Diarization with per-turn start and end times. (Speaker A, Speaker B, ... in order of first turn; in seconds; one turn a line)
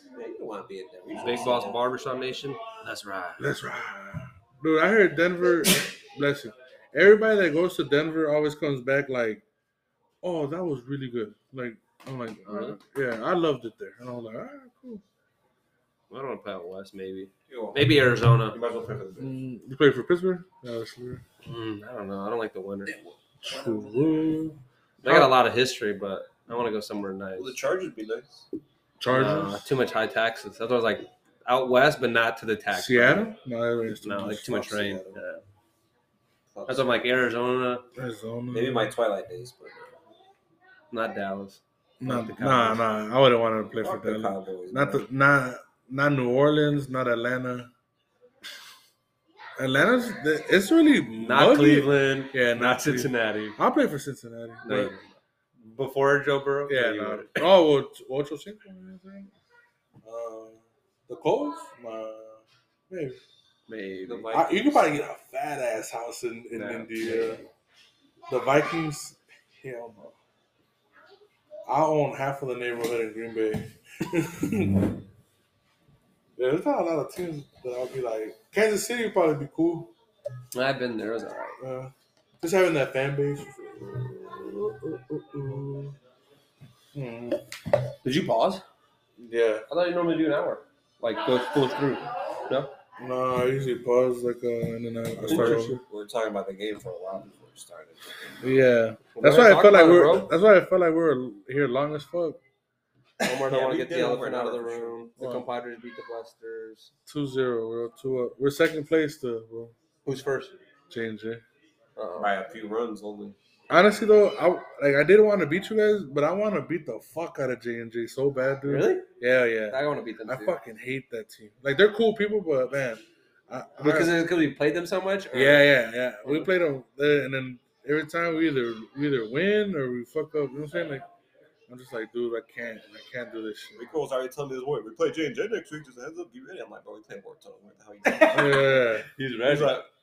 Speaker A: 0.1-1.9
Speaker B: 1.2-3.4
Speaker C: 3.4-9.4
Speaker C: 10.2-15.0
Speaker B: 12.5-12.8
Speaker B: 16.1-18.6
Speaker A: 17.5-17.9
Speaker A: 18.5-19.3
Speaker C: 19.2-21.2
Speaker B: 21.4-23.0
Speaker C: 23.4-25.3
Speaker B: 25.0-27.6
Speaker A: 27.4-28.4
Speaker C: 29.0-29.7
Speaker B: 29.1-33.3
Speaker C: 32.7-34.6
Speaker B: 34.0-35.4
Speaker A: 34.5-35.2
Speaker A: 36.5-37.0
Speaker B: 36.7-37.9
Speaker C: 38.0-38.9
Speaker A: 38.5-40.0
Speaker B: 40.9-42.8
Speaker C: 42.0-47.7
Speaker A: 43.8-45.0
Speaker C: 49.6-54.9
Speaker B: 51.2-53.6
Speaker B: 54.6-57.5
Speaker C: 56.7-59.3
Speaker C: 60.0-63.2
Speaker B: 63.7-64.7
Speaker A: 64.1-64.5
Speaker C: 64.3-67.4
Speaker B: 66.5-67.4
Speaker C: 68.3-70.2
Speaker C: 71.7-75.0
Speaker C: 76.4-79.9
Speaker B: 80.5-81.6
Speaker C: 81.6-85.9
Speaker C: 86.9-87.4
Speaker B: 88.0-88.6
Speaker C: 89.2-89.7
Speaker B: 89.7-92.7
Speaker C: 93.0-95.8
Speaker A: 95.2-98.6
Speaker B: 95.3-95.8
Speaker C: 98.4-102.4
Speaker B: 99.1-100.3
Speaker B: 103.2-106.9
Speaker A: 103.4-105.0
Speaker C: 105.2-105.5
Speaker C: 107.1-109.8
Speaker B: 110.0-110.6
Speaker C: 110.9-111.4
Speaker B: 112.0-112.3
Speaker A: 112.2-113.4
Speaker C: 113.7-124.2
Speaker B: 118.7-119.1
Speaker B: 119.7-120.5
Speaker B: 123.8-125.7
Speaker C: 125.3-131.1
Speaker B: 126.2-126.5
Speaker C: 131.7-133.8
Speaker A: 133.8-138.8
Speaker B: 138.1-139.8
Speaker C: 138.3-139.1
Speaker A: 139.4-139.9